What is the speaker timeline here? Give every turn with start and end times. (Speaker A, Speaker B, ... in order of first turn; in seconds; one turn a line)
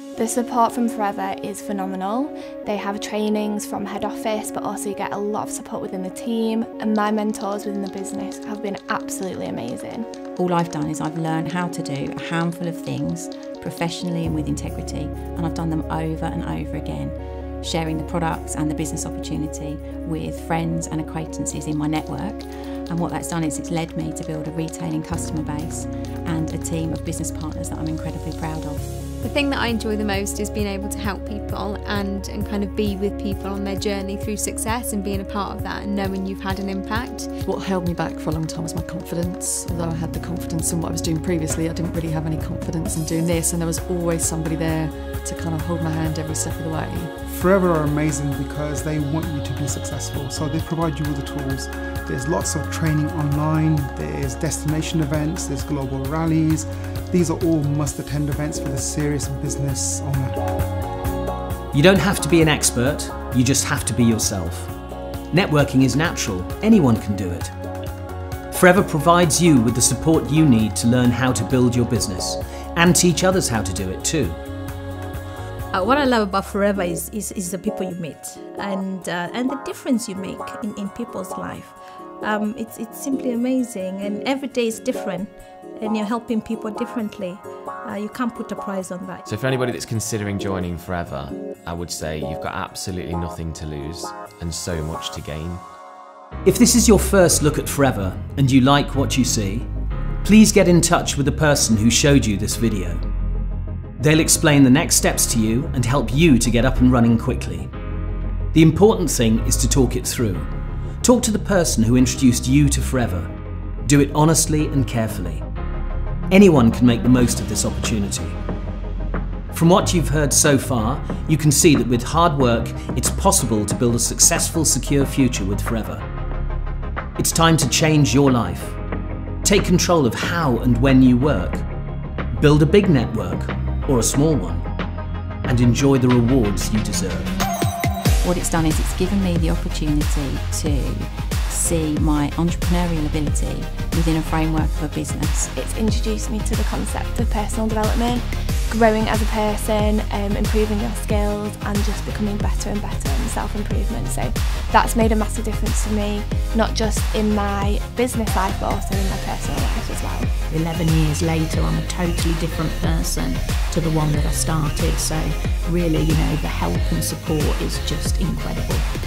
Speaker A: 0.1-10.1
Speaker B: 10.4-28.9
Speaker C: 29.2-37.3
Speaker D: 37.4-47.1
Speaker E: 47.2-60.6
Speaker F: 61.7-64.7
Speaker F: 65.3-67.5
Speaker F: 68.5-74.4
Speaker G: 75.7-89.2
Speaker H: 89.2-95.6
Speaker F: 96.4-99.7
Speaker F: 100.2-103.0
Speaker F: 104.0-107.7
Speaker F: 108.5-110.5
Speaker F: 111.0-113.3
Speaker F: 113.8-115.4
Speaker F: 116.3-118.4
Speaker F: 119.5-126.0
Speaker F: 127.2-128.8
Speaker F: 129.4-131.7
Speaker F: 132.3-134.6
Speaker F: 135.5-137.3
Speaker B: 138.2-145.5
Speaker A: 145.6-160.3
Speaker I: 160.5-168.8